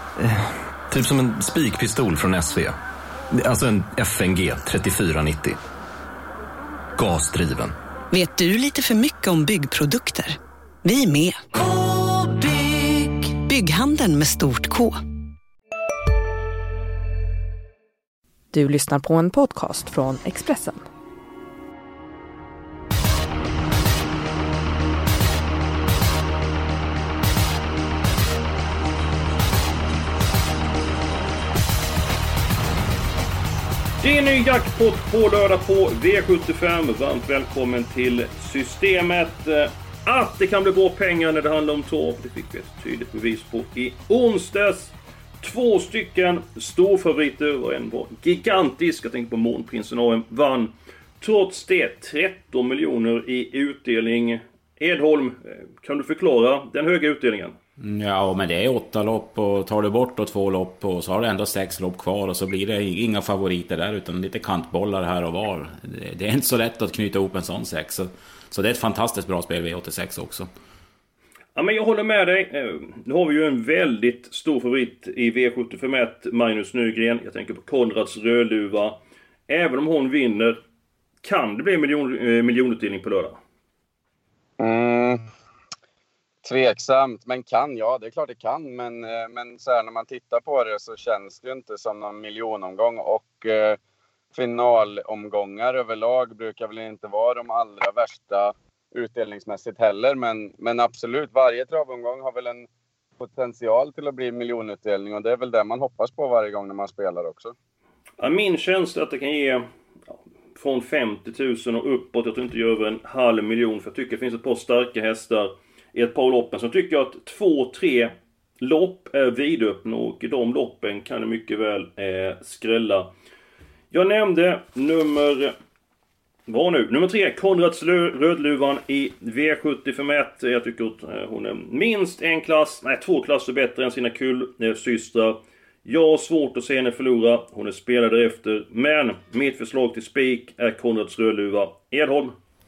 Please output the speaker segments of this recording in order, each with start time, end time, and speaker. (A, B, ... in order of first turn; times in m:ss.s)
0:00.2-0:02.7 A
0:03.4-0:05.6 A
0:07.0-0:07.7 A
0:08.1-0:15.0 B
0:18.5-0:20.8 C
0:34.0-0:57.6 D
0:57.8-1:10.5 E
1:11.5-1:20.6 D
1:21.2-1:23.4 D
1:24.6-1:25.2 F
1:26.4-1:33.8 F
1:34.3-1:42.7 F
1:43.2-1:47.5 F
1:48.2-1:49.6 D
1:50.5-2:03.1 D
2:03.9-2:05.5 D
2:06.5-2:22.4 D